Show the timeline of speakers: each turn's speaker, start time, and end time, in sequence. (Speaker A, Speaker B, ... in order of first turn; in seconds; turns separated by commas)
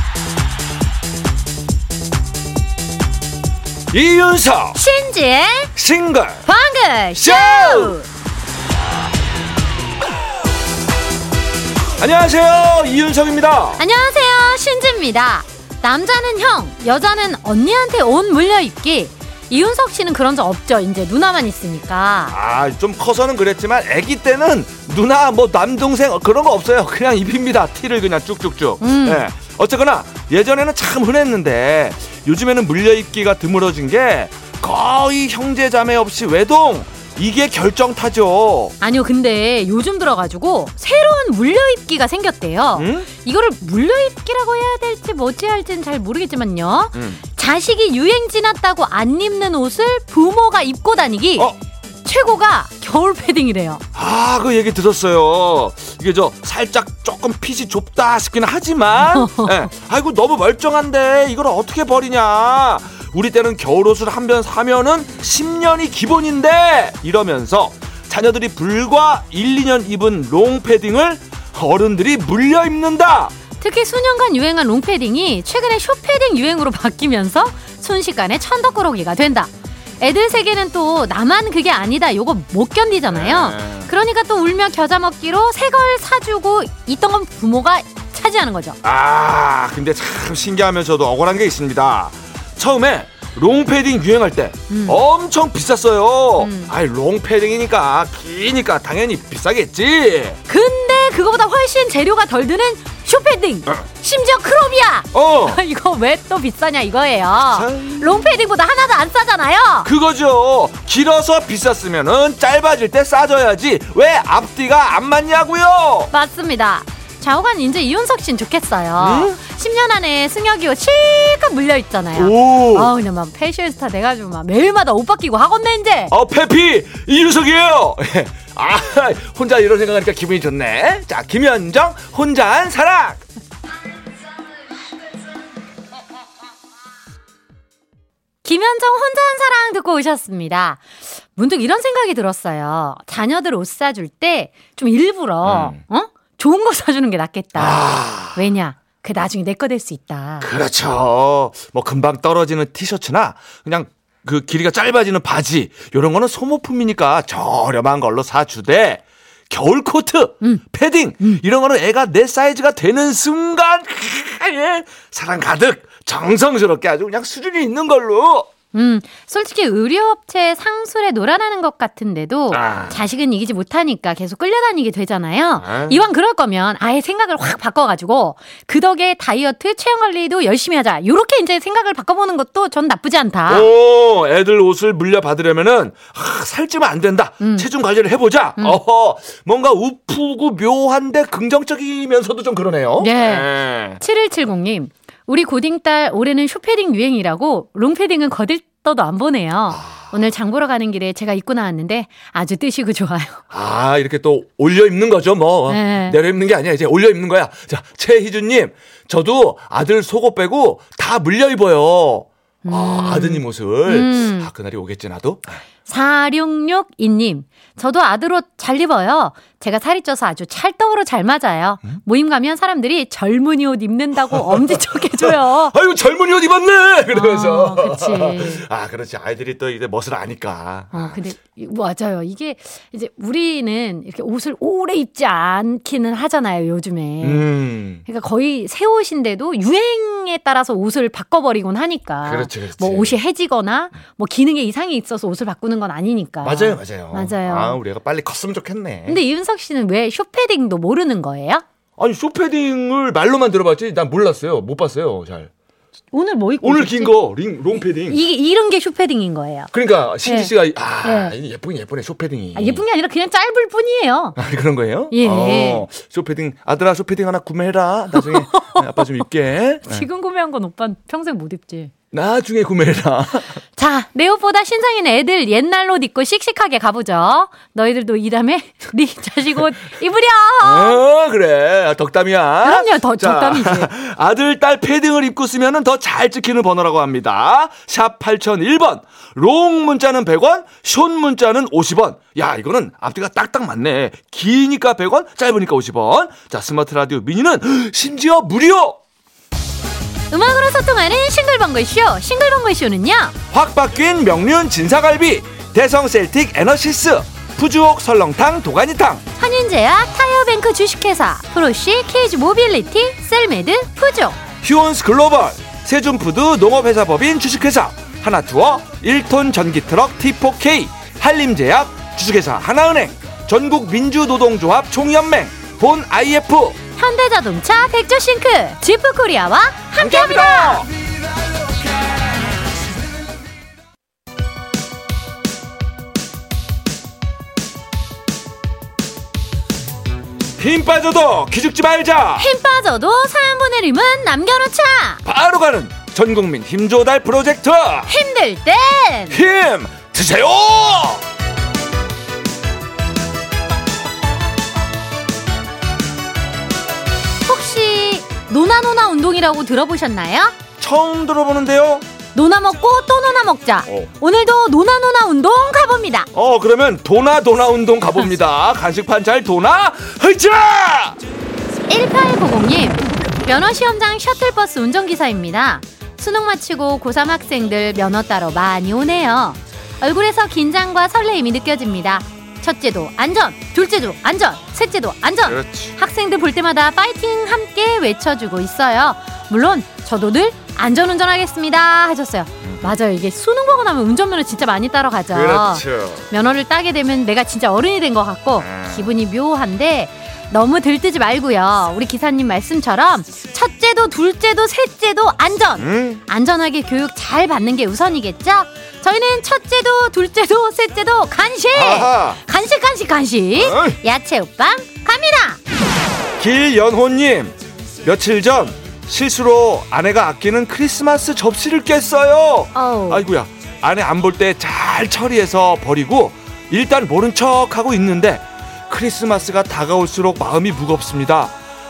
Speaker A: 3.9-4.8, Speaker B: 4.8-5.7, Speaker A: 5.8-6.5, Speaker B: 6.5-8.1, Speaker A: 7.2-8.0, Speaker A: 12.0-13.8, Speaker B: 13.8-22.4, Speaker A: 22.3-38.8, Speaker B: 28.8-29.3, Speaker B: 38.8-51.5, Speaker A: 42.8-43.1, Speaker A: 46.9-47.2, Speaker B: 52.0-53.8, Speaker A: 53.9-73.3, Speaker B: 59.0-59.7, Speaker B: 73.6-79.5, Speaker B: 80.0-88.8, Speaker A: 83.1-83.9, Speaker A: 88.8-100.4, Speaker B: 94.7-95.0, Speaker B: 96.4-96.7, Speaker B: 100.5-109.9, Speaker A: 105.1-105.6, Speaker A: 107.5-108.4, Speaker A: 109.8-116.1, Speaker B: 116.1-126.1, Speaker A: 119.0-119.4, Speaker A: 122.2-122.9, Speaker A: 126.1-133.2, Speaker B: 138.4-150.5, Speaker A: 145.4-145.8, Speaker A: 147.6-148.5, Speaker A: 150.4-168.5, Speaker B: 168.7-183.7, Speaker A: 172.5-173.1, Speaker A: 175.6-176.0, Speaker A: 183.5-194.0, Speaker B: 187.4-187.7, Speaker B: 193.0-203.4, Speaker A: 199.7-200.1, Speaker A: 203.5-215.5, Speaker B: 205.7-206.2, Speaker B: 212.6-214.5, Speaker B: 215.9-225.8, Speaker A: 224.3-231.2, Speaker B: 227.1-228.7, Speaker B: 230.9-237.5, Speaker A: 237.2-238.0, Speaker B: 238.0-247.8, Speaker A: 242.2-243.2, Speaker A: 246.4-249.2, Speaker B: 249.1-251.6, Speaker A: 252.0-255.5, Speaker B: 256.1-257.1, Speaker A: 256.6-258.2, Speaker B: 258.1-259.7, Speaker A: 259.7-262.8, Speaker B: 260.2-261.4, Speaker B: 262.6-264.4, Speaker A: 264.4-270.1, Speaker B: 265.1-265.9, Speaker B: 268.2-268.8, Speaker B: 269.9-271.9, Speaker A: 272.1-273.5, Speaker B: 273.8-281.0, Speaker A: 280.6-299.0, Speaker B: 282.6-283.9, Speaker B: 300.3-303.3, Speaker A: 303.5-309.2, Speaker B: 309.4-314.4, Speaker A: 314.6-326.8, Speaker B: 327.0-330.9, Speaker A: 330.0-330.9, Speaker A: 340.6-342.5, Speaker B: 342.4-345.2, Speaker A: 345.2-348.1, Speaker B: 348.1-349.4, Speaker A: 349.3-351.2, Speaker B: 357.4-360.6, Speaker A: 360.8-362.1, Speaker B: 362.3-366.3, Speaker A: 366.3-371.2, Speaker B: 371.9-415.6, Speaker A: 385.5-386.0, Speaker A: 392.6-392.9, Speaker A: 395.3-396.3, Speaker A: 398.6-399.1, Speaker A: 405.8-406.2, Speaker A: 411.7-412.4, Speaker A: 413.6-414.0, Speaker A: 416.4-431.5, Speaker B: 422.7-423.3